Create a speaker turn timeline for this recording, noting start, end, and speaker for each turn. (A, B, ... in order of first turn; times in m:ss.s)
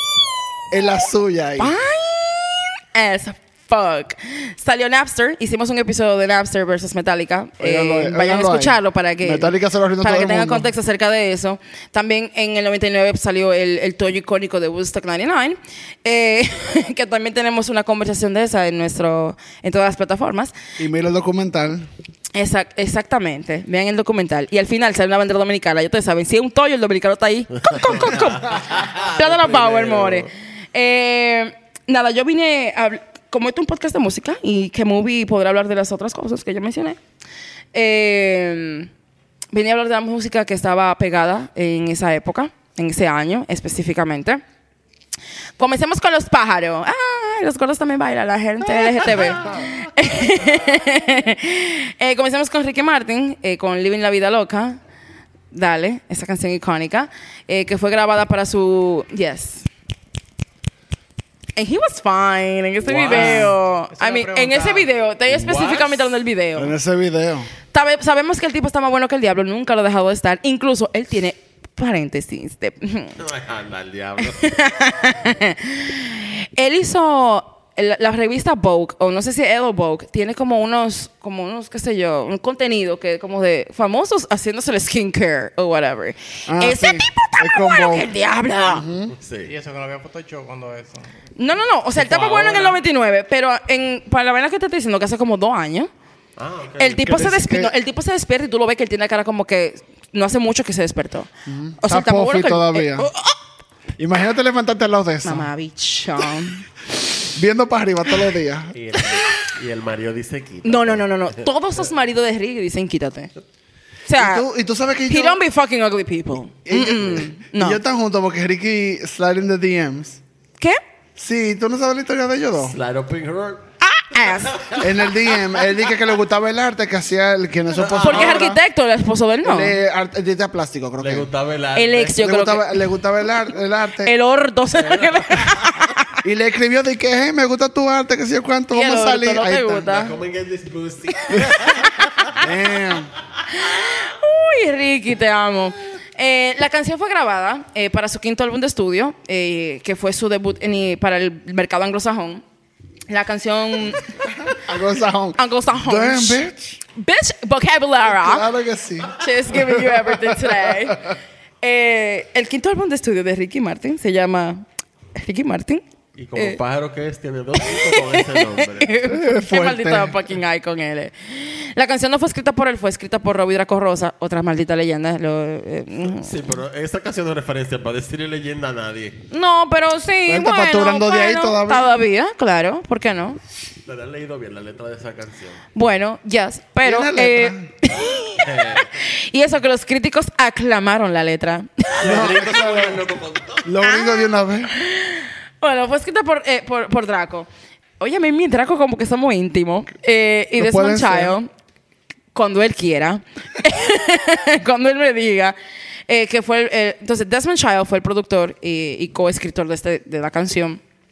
0:00.7-0:01.7 A
0:01.6-0:20.5 B
0:07.6-0:10.7 A
0:20.8-0:21.9 A
0:22.4-0:37.0 B
0:27.6-0:30.3 C
0:37.7-0:38.9 B
0:39.5-0:44.4 B
0:45.6-0:54.8 B
0:49.1-0:49.6 C
0:55.5-0:59.7 B
1:01.6-1:06.7 B
1:03.0-1:03.3 C
1:03.0-1:04.9 D
1:03.0-1:03.6 A
1:05.3-1:06.1 C
1:06.6-1:07.5 A
1:07.7-1:13.2 B
1:13.2-1:14.6 C
1:14.2-1:28.9 B
1:26.5-1:28.2 A
1:28.7-1:29.1 A
1:29.1-1:29.5 C
1:29.4-1:31.1 D
1:31.4-1:35.9 B
1:32.0-1:32.8 C
1:36.4-1:37.0 C
1:36.8-1:43.4 B
1:37.0-1:37.7 A
1:41.5-1:43.1 A
1:44.0-1:45.5 A
1:45.2-1:46.6 B
1:47.2-1:48.7 A
1:48.7-1:51.5 C
1:49.0-1:49.3 B
1:50.6-1:53.3 B
1:54.1-1:54.5 B
1:54.2-1:55.4 A
1:55.1-1:57.8 B
1:56.7-2:00.2 A
2:01.2-2:02.8 A
2:02.6-2:03.6 C
2:03.8-2:04.8 B
2:04.2-2:05.7 C
2:04.8-2:08.6 A
2:07.7-2:08.5 C
2:08.0-2:09.8 B
2:09.4-2:11.3 A
2:11.0-2:12.2 C
2:11.8-2:12.9 B
2:12.2-2:14.1 A
2:14.0-2:16.2 B
2:14.8-2:15.7 C
2:16.2-2:19.9 A
2:18.7-2:20.2 B
2:19.9-2:22.5 C
2:21.3-2:22.3 B
2:22.4-2:23.1 A
2:23.5-2:32.4 B
2:33.1-2:34.2 B
2:34.4-2:36.8 A
2:35.4-2:36.4 B
2:37.0-2:38.5 B
2:38.0-2:41.1 A
2:39.1-2:44.6 B
2:45.2-2:45.8 B
2:46.2-2:48.9 C
2:47.6-2:56.4 B
2:49.1-2:50.2 A
2:56.0-2:59.2 C
2:59.3-3:03.4 B
3:00.3-3:01.9 A
3:03.8-3:05.6 C
3:05.8-3:12.4 B
3:06.8-3:07.7 A
3:08.4-3:09.0 C
3:11.9-3:13.7 C
3:12.0-3:13.0 A
3:13.6-3:14.7 A
3:13.8-3:17.5 B
3:18.0-3:21.5 B
3:20.6-3:21.4 A
3:22.3-3:25.6 B
3:26.1-3:30.8 B